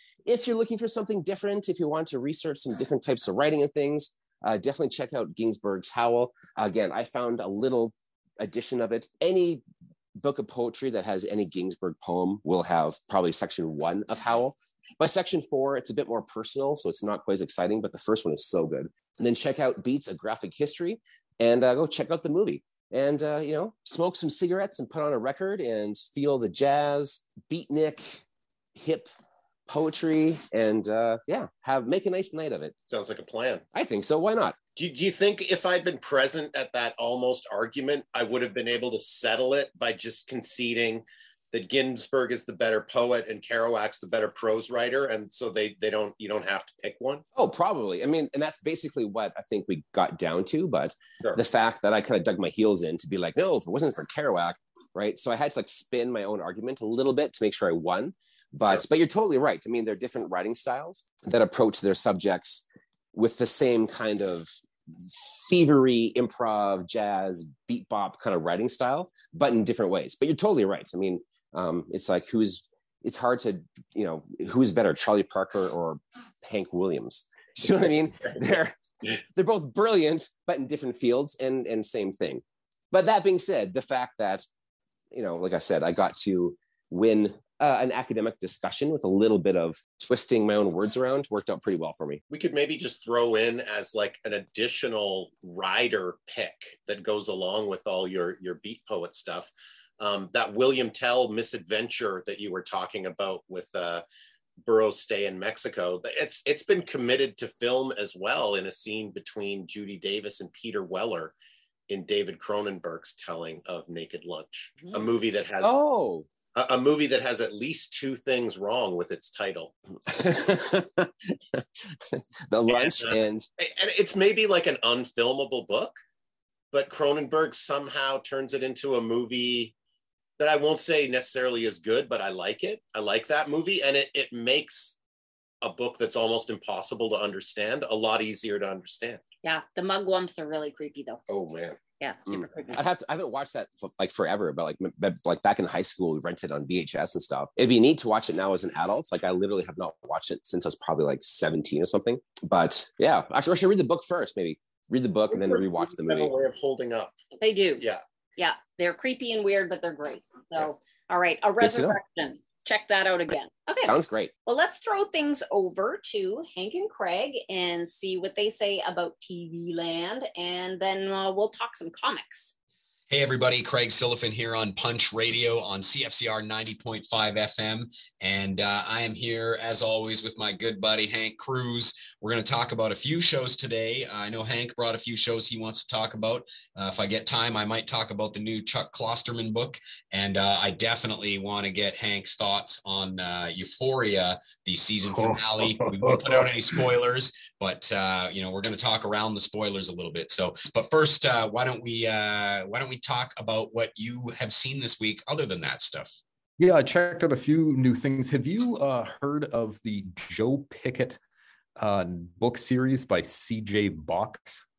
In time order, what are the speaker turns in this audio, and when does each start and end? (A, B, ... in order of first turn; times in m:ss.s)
0:00.2-0:09.6 A
0:10.2-0:28.2 A
0:28.8-0:29.1 A
0:29.7-0:32.7 A
0:32.9-0:33.7 B
0:33.7-0:34.6 A
0:34.8-0:47.2 B
0:47.4-1:24.4 A
1:25.1-1:32.2 A
1:32.3-1:44.0 B
1:44.6-1:51.3 B
1:51.9-1:55.8 B
1:55.6-1:56.3 A
1:56.6-1:59.7 B
2:00.1-2:03.5 A
2:02.7-2:05.9 B
2:06.7-2:09.7 B
2:10.4-2:15.0 B
2:15.6-2:19.2 B
2:19.4-2:21.2 C
2:21.3-2:21.8 B
2:22.0-2:22.8 C
2:22.3-2:36.3 A
2:35.3-2:37.1 B
2:37.4-2:37.8 C
2:38.4-2:52.5 C
2:41.6-2:42.0 A
2:43.8-2:44.3 A
2:53.1-3:26.2 D
3:15.1-3:16.8 E
3:26.6-3:31.2 E
3:31.8-3:34.6 E